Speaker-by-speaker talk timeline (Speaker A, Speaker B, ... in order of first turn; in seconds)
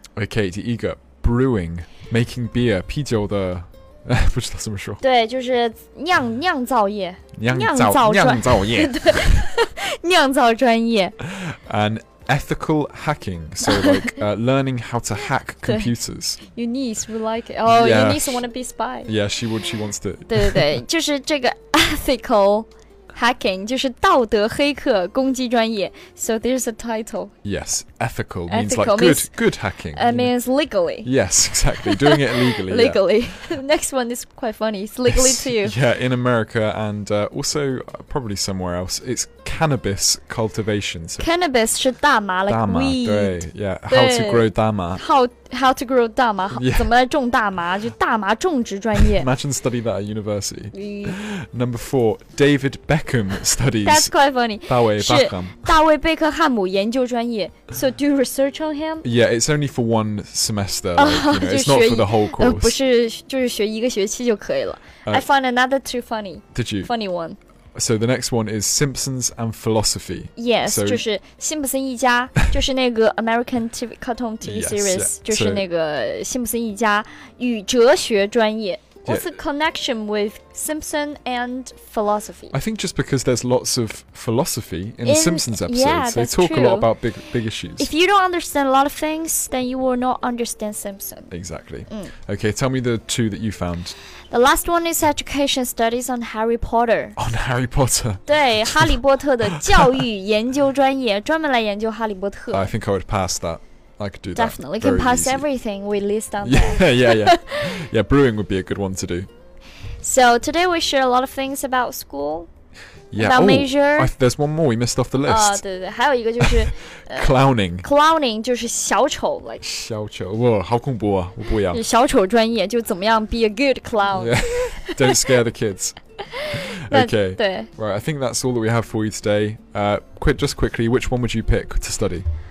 Speaker A: 0.2-5.0, 7.3-9.5, 11.3-16.4, 17.6-18.4, 19.1-20.8, 27.4-30.3, 31.0-33.0, 35.1-41.3, 42.5-45.0, 46.5-46.9, 49.0-54.1, 54.7-55.8, 59.0-62.8, 66.5-66.9, 67.7-71.0, 74.4-75.6, 79.1-79.3, 82.5-87.9, 91.3-93.9, 97.2-99.0, 99.5-100.0, 102.5-105.4, 106.4-109.3, 113.1-115.6, 116.4-117.9, 119.6-121.8, 124.1-126.0, 126.5-132.2
Speaker B: 5.0-11.2, 13.6-14.2, 15.6-15.9, 16.5-19.1, 20.3-27.3, 28.5-29.3, 29.9-31.1, 31.8-35.8, 41.2-49.3, 50.7-51.2, 53.8-59.0, 61.0-67.4, 70.3-82.5, 85.0-86.9, 87.8-91.3, 91.9-92.1, 94.3-97.2, 98.3-102.7, 104.3-107.6, 110.0-112.5, 113.2-114.1, 115.2-119.6, 121.7-125.2, 126.3-127.7